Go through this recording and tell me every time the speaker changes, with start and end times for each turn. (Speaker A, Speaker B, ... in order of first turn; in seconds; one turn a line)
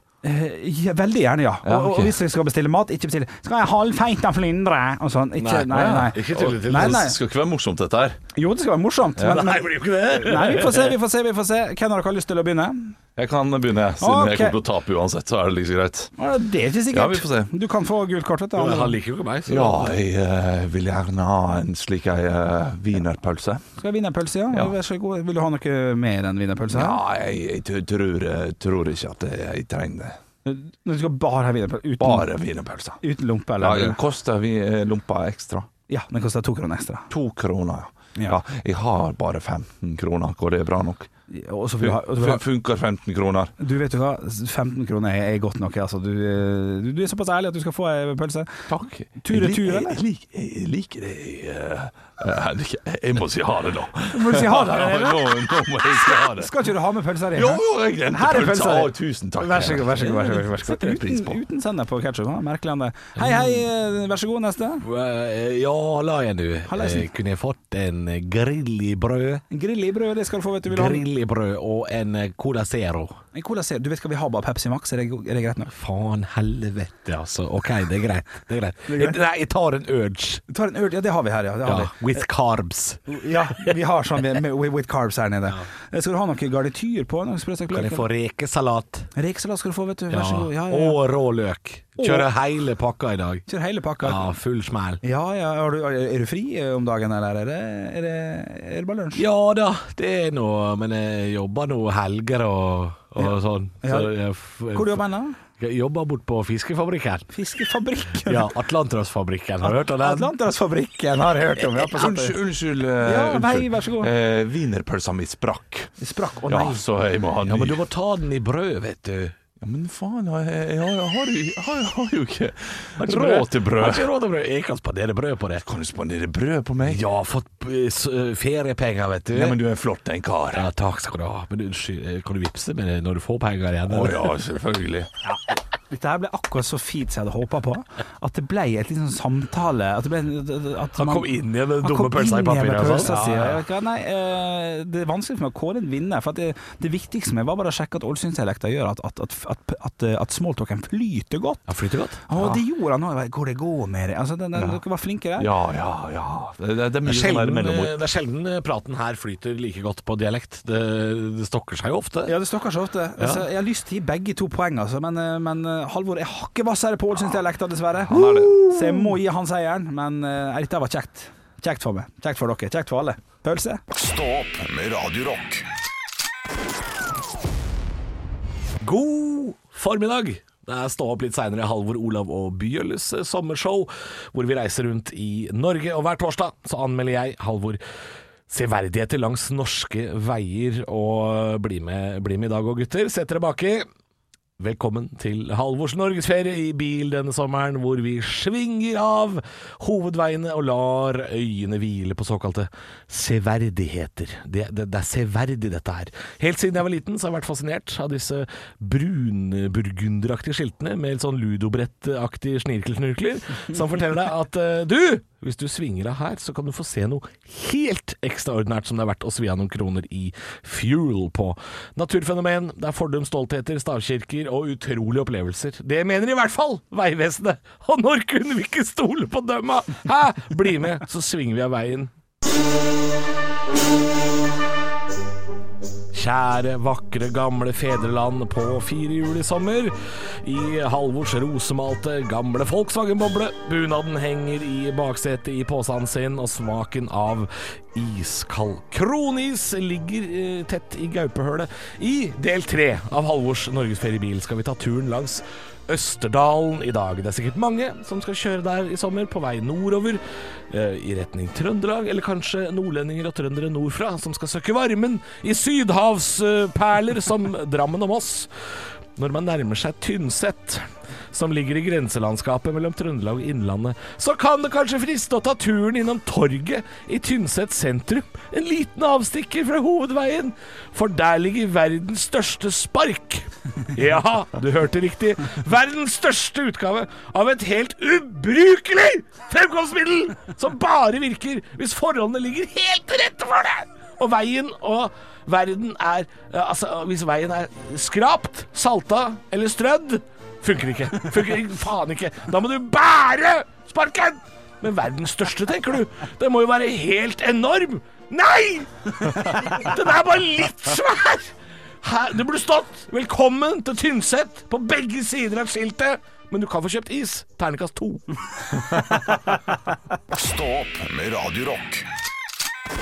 Speaker A: 0.2-7.2
Speaker B: 1.6-2.1
Speaker C: 5.4-7.1
Speaker B: 5.7-8.2
Speaker A: 8.3-12.9
Speaker C: 9.2-10.9
Speaker B: 13.2-16.1
Speaker A: 14.0-14.6
Speaker A: 16.2-19.0
Speaker B: 16.9-17.5
Speaker C: 18.6-19.9
Speaker B: 19.5-23.6
Speaker A: 23.8-27.0
Speaker B: 26.7-30.2
Speaker A: 30.4-32.3
Speaker B: 32.0-33.0
Speaker A: 33.0-34.0
Speaker B: 33.6-35.7
Speaker A: 35.9-37.1
Speaker B: 37.1-41.1
Speaker A: 41.3-42.4
Speaker B: 41.8-43.5
Speaker A: 43.6-48.7
Speaker B: 48.7-56.6
Speaker A: 49.2-50.0
Speaker A: 54.1-64.8
Speaker B: 57.3-61.4
Speaker C: 64.8-69.4
Speaker A: 66.7-67.1
Speaker A: 69.5-71.0
Speaker C: 70.7-73.2
Speaker A: 73.3-75.7
Speaker C: 75.7-80.4
Speaker A: 78.9-79.2
Speaker A: 80.5-82.2
Speaker C: 81.6-83.7
Speaker A: 83.1-88.0
Speaker C: 87.7-89.1
Speaker A: 89.1-91.0
Speaker C: 90.1-93.5
Speaker A: 92.0-92.3
Speaker A: 93.5-94.2
Speaker C: 94.0-95.0
Speaker A: 95.0-99.2
Speaker C: 99.1-105.0
Speaker A: 103.2-104.2
Speaker A: 104.7-105.4
Speaker C: 105.6-107.3
Speaker A: 107.3-108.5
Speaker C: 108.2-110.3
Speaker A: 109.6-112.4
Speaker B: 111.6-115.9
Speaker A: 113.0-114.1
Speaker A: 116.0-116.8
Speaker B: 116.5-117.8
Speaker C: 117.4-119.3
Speaker B: 119.6-124.1
Speaker C: 123.0-125.6
Speaker B: 125.6-127.0
Speaker C: 126.8-129.6
Speaker B: 129.3-130.7
Speaker C: 130.5-134.3
Speaker B: 133.9-135.1
Speaker A: 135.2-151.7
Speaker C: 140.9-143.6
Speaker C: 151.7-152.2
Speaker A: 152.3-155.5
Speaker B: 155.4-158.0
Speaker C: 157.1-162.3
Speaker A: 162.2-173.8
Speaker C: 163.2-163.4
Speaker B: 168.1-168.7
Speaker C: 168.1-169.0
Speaker D: 173.9-175.7
Speaker C: 178.8-187.8
Speaker C: 188.5-193.9
Speaker C: 194.6-232.1
Speaker C: 236.1-318.2
Speaker D: 320.3-322.1